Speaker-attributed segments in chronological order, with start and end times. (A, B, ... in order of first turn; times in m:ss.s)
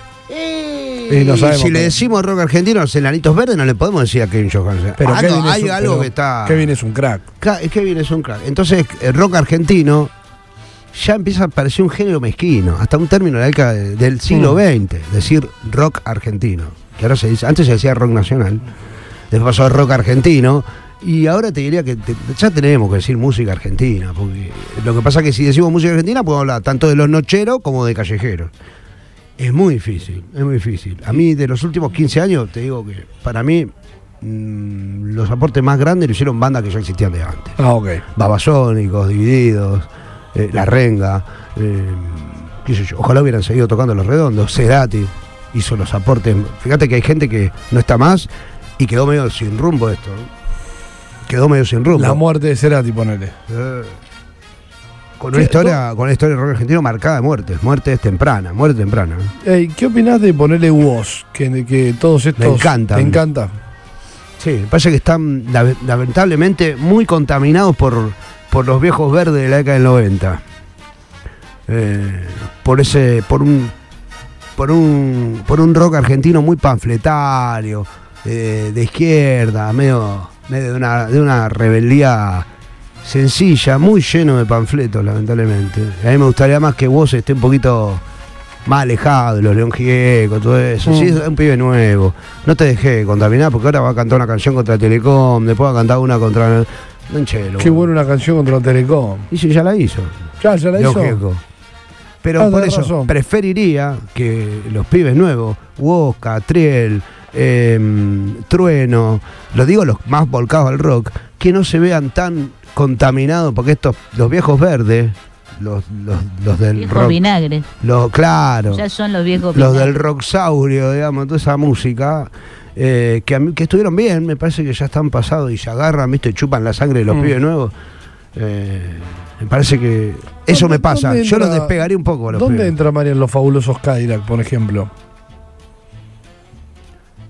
0:00.3-0:06.7 A
0:01.1-0:02.0 B
0:05.0-0:07.3 B
0:07.4-0:10.1 A
0:10.9-0:18.6 A
0:14.3-0:14.6 B
0:19.3-0:28.5 A
0:29.4-0:37.6 A
0:37.6-0:38.0 B
0:38.2-0:50.3 A
0:51.3-0:52.2 A
0:51.9-0:53.4 B
0:53.5-0:54.0 A
0:55.2-0:59.3 A
0:55.3-0:55.8 B
0:59.4-1:03.5 B
1:02.4-1:03.2 A
1:04.4-1:10.4 A
1:11.7-1:13.7 A
1:14.6-1:22.5 A
1:23.0-1:28.0 A
1:28.7-1:37.9 A
1:30.9-1:31.2 B
1:37.6-1:39.3 B
1:39.3-1:40.2 A
1:40.4-1:41.2 B
1:40.8-1:41.4 A
1:42.2-1:57.2 A
1:42.4-1:43.1 B
1:56.8-1:57.7 C
1:57.8-1:58.8 A
1:58.7-1:59.9 C
1:59.5-2:07.7 A
2:08.4-2:12.8 A
2:10.5-2:11.8 B
2:12.3-2:14.9 B